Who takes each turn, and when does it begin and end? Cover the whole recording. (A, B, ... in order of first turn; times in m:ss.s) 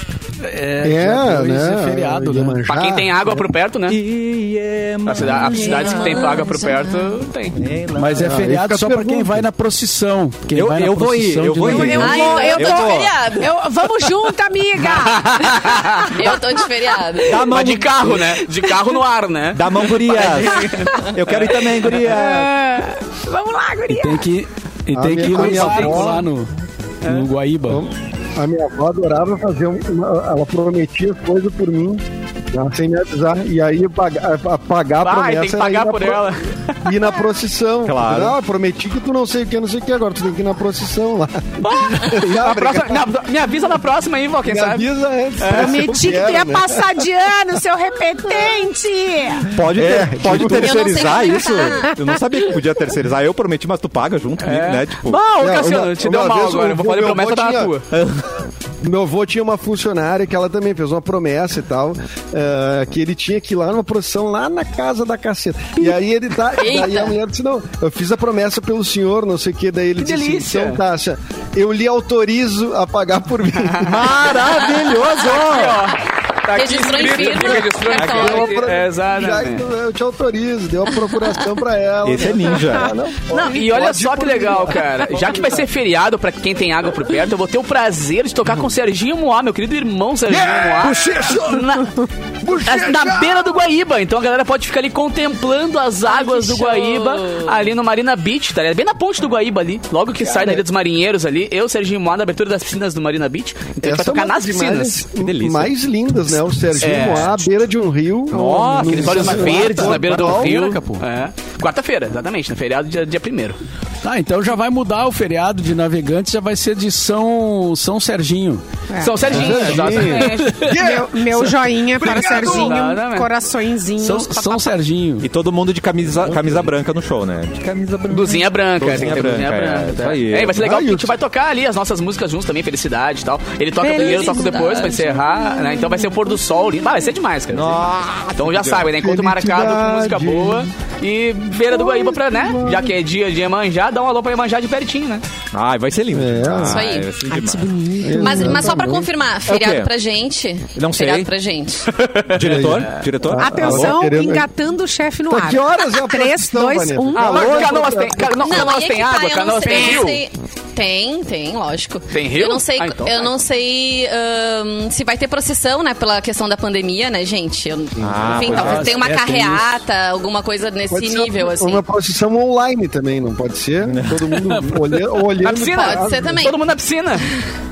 0:00.4-0:02.6 A
0:00.8-0:03.4 B
0:02.7-0:04.0 C
0:03.9-0:06.4 D
0:05.0-0:07.6 C
0:05.5-0:06.7 E
0:07.5-0:08.4 D
0:08.0-0:12.2 A
0:08.2-0:09.5 B
0:10.5-0:13.4 D
0:11.6-0:17.0 F
0:12.0-0:13.5 E
0:15.0-0:16.1 C
0:16.1-0:17.5 E
0:17.2-0:18.1 D
0:17.3-0:22.2 C
0:19.5-0:22.5 D
0:22.0-0:24.3 F
0:23.9-0:26.5 A
0:24.9-0:26.2 B
0:25.3-0:26.1 C
0:27.0-0:27.8 A
0:27.7-0:36.2 B
0:35.0-0:37.2 C
0:36.8-0:43.1 B
0:37.8-0:38.4 D
0:41.6-0:45.9 C
0:44.5-0:47.0 B
0:45.5-0:49.5 F
0:49.5-0:55.2 D
0:49.6-0:51.3 B
0:50.4-0:51.9 E
0:54.4-0:57.8 C
0:55.4-0:57.7 B
0:57.9-0:58.3 D
0:58.8-1:14.3 B
1:06.6-1:07.1 E
1:10.0-1:10.8 C
1:13.8-1:15.9 D
1:14.7-1:19.7 C
1:16.5-1:18.6 E
1:17.9-1:18.3 D
1:18.0-1:25.7 B
1:22.0-1:23.0 D
1:23.3-1:45.0 C
1:30.4-1:31.7 B
1:30.9-1:31.2 A
1:32.4-1:33.5 B
1:36.1-1:37.6 E
1:40.2-1:40.6 B
1:43.8-1:50.6 B
1:45.2-1:45.7 D
1:46.8-1:47.4 C
1:48.3-1:49.7 D
1:48.8-1:53.6 C
1:49.4-1:51.0 A
1:54.0-1:58.6 A
1:58.9-1:59.2 F
1:59.0-2:00.9 C
1:59.2-2:02.7 B
1:59.3-2:00.8 A
2:00.7-2:04.8 F
2:02.1-2:03.3 C
2:04.0-2:05.2 A
2:05.2-2:10.6 D
2:06.2-2:06.6 B
2:08.1-2:17.8 C
2:10.5-2:11.1 B
2:13.8-2:16.4 F
2:14.1-2:14.8 E
2:17.5-2:18.9 D
2:18.4-2:25.2 C
2:18.9-2:20.7 B
2:21.7-2:22.9 B
2:25.5-2:27.8 D
2:26.1-2:26.8 B
2:26.6-2:27.1 E
2:27.3-2:28.6 F
2:28.0-2:29.1 B
2:28.2-2:31.9 E
2:29.5-2:29.9 D
2:30.8-2:31.3 D
2:31.9-2:32.7 C
2:32.3-2:34.0 D
2:32.4-2:34.5 B
2:33.3-2:37.7 F
2:35.3-2:38.7 B
2:37.1-2:40.2 C
2:38.4-2:51.8 E
2:39.7-2:40.0 F
2:42.1-2:43.3 C
2:48.0-2:48.8 B
2:48.0-2:49.0 D
2:48.3-2:49.8 A
2:50.9-2:56.5 B
2:53.8-2:54.3 D
2:54.4-2:55.2 A
2:55.4-2:57.3 C
2:55.5-2:56.6 E